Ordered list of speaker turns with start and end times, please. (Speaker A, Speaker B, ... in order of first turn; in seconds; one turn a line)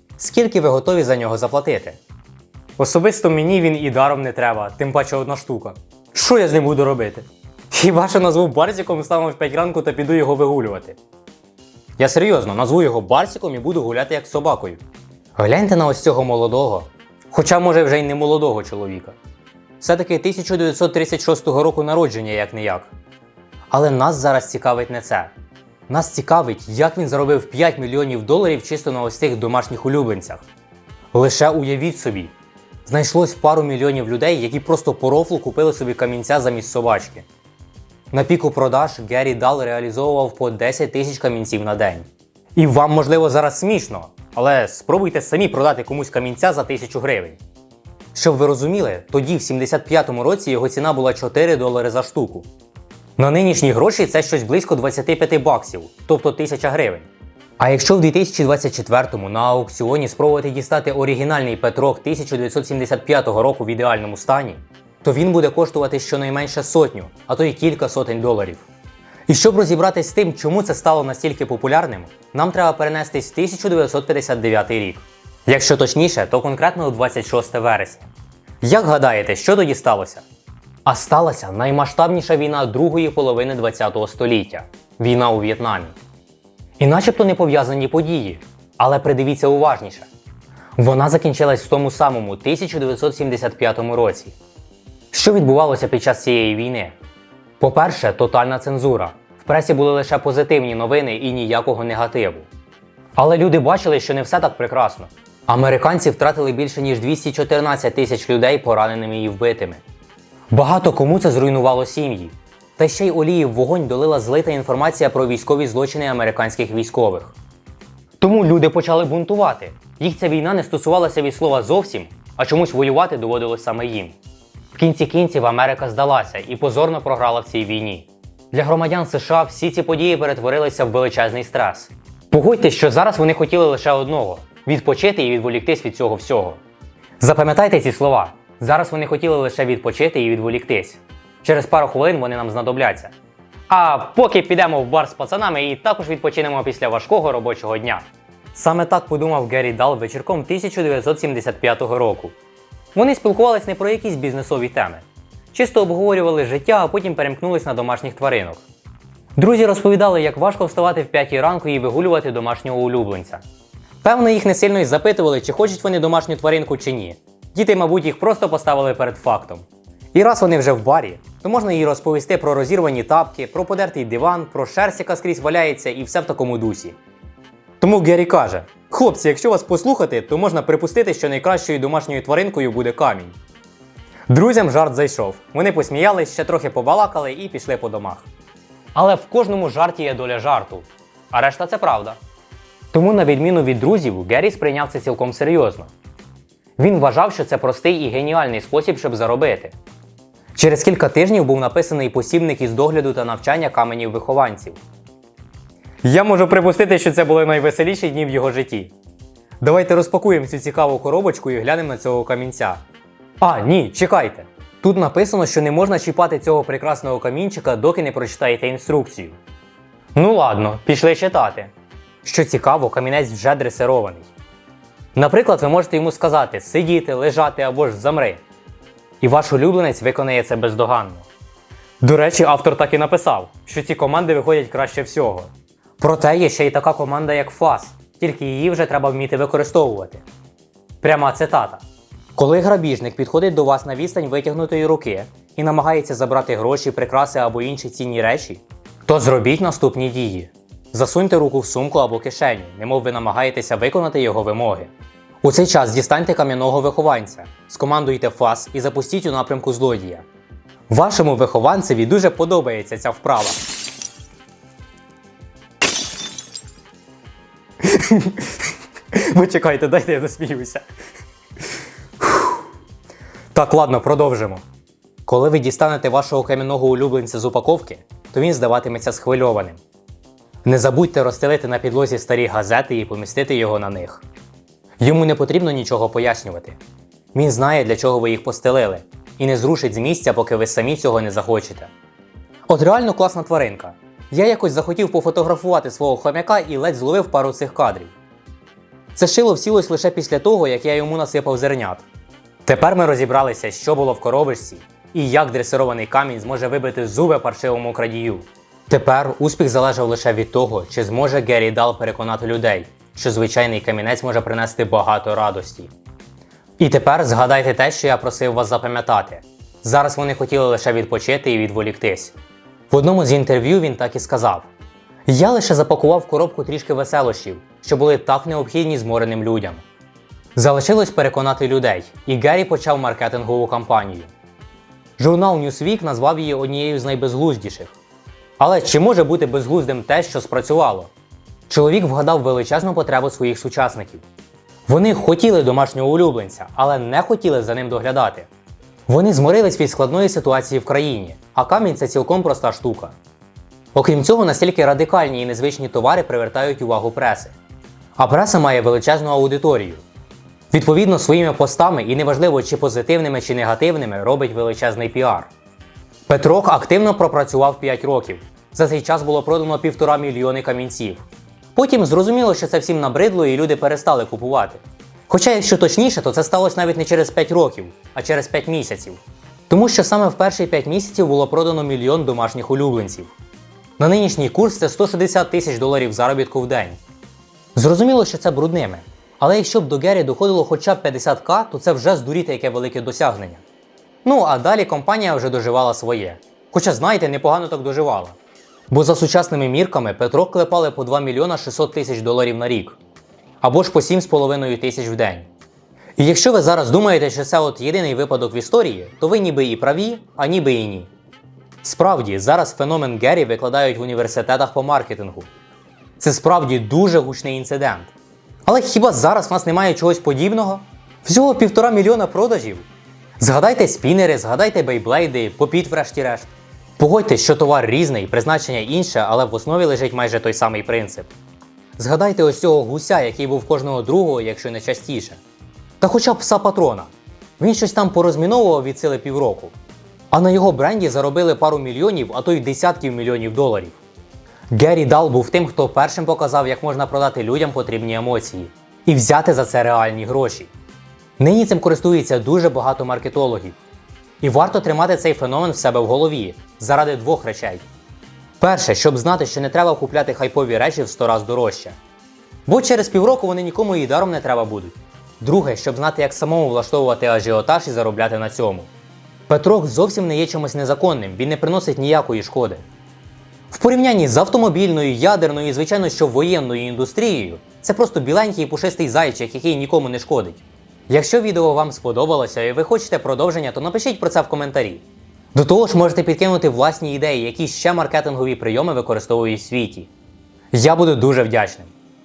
Speaker A: 0.2-2.0
Speaker A: 2.8-11.0
Speaker A: 12.0-14.8
Speaker A: 15.4-19.2
Speaker A: 19.8-22.9
Speaker A: 23.7-25.3
Speaker A: 25.9-30.5
Speaker A: 31.1-32.3
Speaker A: 32.9-37.3
Speaker A: 38.1-47.4
Speaker A: 48.1-52.5
Speaker A: 53.2-57.1
Speaker A: 57.6-68.7
Speaker A: 69.3-78.1
Speaker A: 78.6-80.2
Speaker A: 80.8-86.0
Speaker A: 86.8-90.1
Speaker A: 90.8-94.4
Speaker A: 95.1-97.0
Speaker A: 97.6-102.5
Speaker A: 103.2-109.8
Speaker A: 110.5-117.3
Speaker A: 118.2-124.2
Speaker A: 124.8-136.6
Speaker A: 137.2-143.1
Speaker A: 143.7-152.3
Speaker A: 152.9-158.6
Speaker A: 159.4-163.4
Speaker A: 164.0-177.0
Speaker A: 177.8-183.4
Speaker A: 184.3-188.3
Speaker A: 188.9-192.2
Speaker A: 192.9-195.9
Speaker A: 196.8-199.7
Speaker A: 200.6-204.8
Speaker A: 206.0-208.9
Speaker A: 209.6-212.8
Speaker A: 213.4-219.4
Speaker A: 220.2-221.7
Speaker A: 222.2-224.3
Speaker A: 225.2-228.4
Speaker A: 229.2-231.3
Speaker A: 232.0-240.2
Speaker A: 241.0-241.8
Speaker A: 242.4-254.9
Speaker A: 255.4-260.2
Speaker A: 260.9-263.6
Speaker A: 267.8-268.6
Speaker A: 269.1-270.8
Speaker A: 272.2-272.6
Speaker A: 273.5-274.6
Speaker A: 275.3-279.8
Speaker A: 280.6-284.2
Speaker A: 285.0-286.8
Speaker A: 287.3-291.9
Speaker A: 292.7-298.1
Speaker A: 299.1-302.1
Speaker A: 302.7-315.9
Speaker A: 316.8-322.4
Speaker A: 322.9-324.7
Speaker A: 325.3-329.8
Speaker A: 330.6-334.3
Speaker A: 335.2-338.0
Speaker A: 338.6-341.1
Speaker A: 341.7-344.2
Speaker A: 344.9-348.5
Speaker A: 349.1-353.2
Speaker A: 353.9-357.6
Speaker A: 358.2-360.0
Speaker A: 360.7-365.5
Speaker A: 366.3-383.3
Speaker A: 384.0-387.0
Speaker A: 387.8-393.6
Speaker A: 394.2-398.4
Speaker A: 398.9-403.0
Speaker A: 403.6-405.5
Speaker A: 406.2-411.1
Speaker A: 411.8-415.5
Speaker A: 416.2-418.1
Speaker A: 418.7-422.9
Speaker A: 423.4-431.3
Speaker A: 432.0-435.4
Speaker A: 436.0-439.7
Speaker A: 440.3-444.0
Speaker A: 444.7-450.7
Speaker A: 451.4-453.8
Speaker A: 454.4-457.9
Speaker A: 458.6-462.0
Speaker A: 462.7-468.9
Speaker A: 469.5-472.8
Speaker A: 473.7-490.1
Speaker A: 490.7-491.9